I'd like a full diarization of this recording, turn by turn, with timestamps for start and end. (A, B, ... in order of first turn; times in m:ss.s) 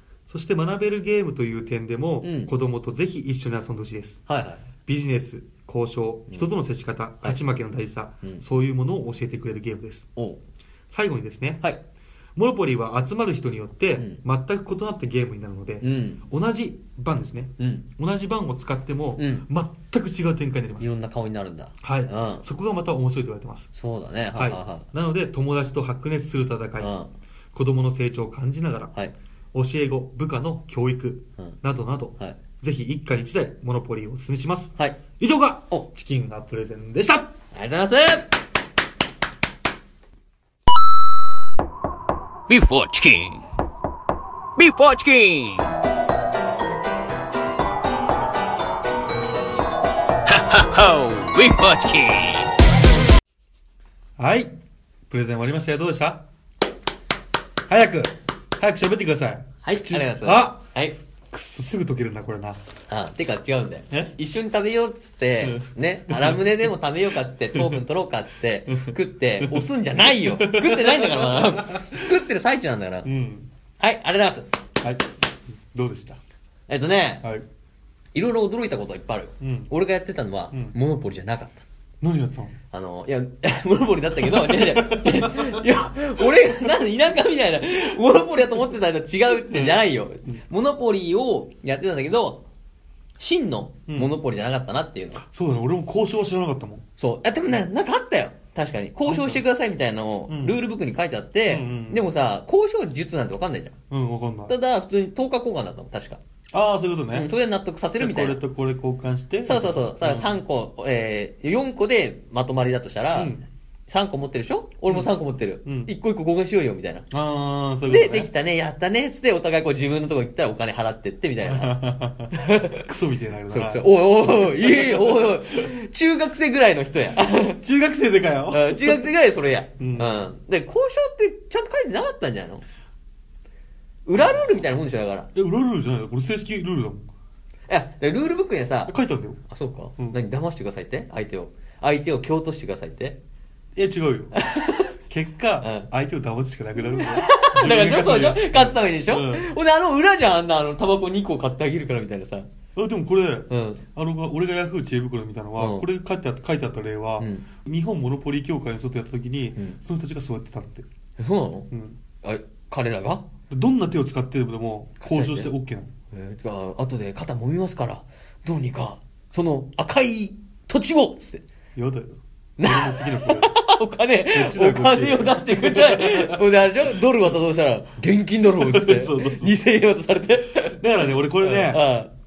0:00.3-0:04.2 A
0:02.2-0:02.5 B
0:04.3-0:04.6 B
0:04.9-0:10.1 A
0:10.9-0:11.6 A
0:12.4-0:20.9 A
0:15.8-0:16.2 B
0:17.6-0:17.8 B
0:19.2-0:19.5 B
0:20.8-0:22.5 B
0:21.8-0:23.7 A
0:23.7-0:24.9 B
0:24.4-0:26.9 A
0:26.8-0:27.1 B
0:27.5-0:28.9 A
0:29.5-0:37.3 A
0:37.5-0:38.3 B
0:42.5-0:43.4 C
0:44.6-0:45.7 C
0:50.3-0:52.5 C
0:54.2-0:54.5 A
0:55.1-0:56.2 A
0:57.7-1:00.6 A
0:59.6-1:01.0 B
1:01.3-1:02.6 A
1:02.9-1:13.1 B
1:05.4-1:06.5 A
1:07.6-1:07.8 A
1:08.7-1:12.2 A
1:13.0-1:13.5 A
1:13.8-1:14.6 B
1:14.8-1:16.2 A
1:16.7-1:17.3 B
1:18.1-1:21.6 B
1:19.4-1:19.7 A
1:20.5-1:20.8 A
1:22.0-1:22.6 A
1:22.7-1:32.4 B
1:24.2-1:25.7 A
1:29.3-1:30.4 A
1:33.2-1:35.2 B
1:35.2-1:36.8 A
1:37.0-1:43.8 B
1:39.0-1:39.4 A
1:40.3-1:40.6 A
1:41.5-1:42.1 A
1:43.9-1:44.5 A
1:44.5-1:46.2 B
1:46.5-1:47.3 A
1:47.1-1:48.4 B
1:48.0-1:50.4 A
1:49.4-1:53.4 B
1:53.1-1:53.4 A
1:53.9-1:57.1 B
1:55.6-1:55.9 A
1:57.1-1:58.3 A
1:57.9-2:01.8 B
2:01.4-2:05.7 A
2:02.3-2:02.9 B
2:03.5-2:07.6 B
2:07.6-2:09.1 A
2:08.5-2:12.6 B
2:09.8-2:10.1 A
2:14.1-2:15.3 B
2:15.3-2:17.1 A
2:17.7-2:18.9 B
2:18.9-2:19.4 A
2:19.5-2:23.2 B
2:23.8-2:24.3 A
2:24.3-2:24.9 B
2:25.1-2:29.5 A
2:25.6-2:25.9 B
2:26.9-2:32.5 B
2:32.8-2:40.9 A
2:33.5-2:33.8 B
2:35.6-2:35.9 B
2:37.2-2:37.5 B
2:41.2-2:41.7 B
2:41.7-2:42.0 A
2:42.2-2:43.3 B
2:43.5-2:45.9 A
2:45.0-2:45.5 B
2:46.1-2:51.4 B
2:51.8-2:53.6 A
2:52.6-3:00.8 B
2:54.3-2:57.0 A
2:58.6-2:59.5 A
3:00.7-3:01.8 A
3:01.4-3:02.1 B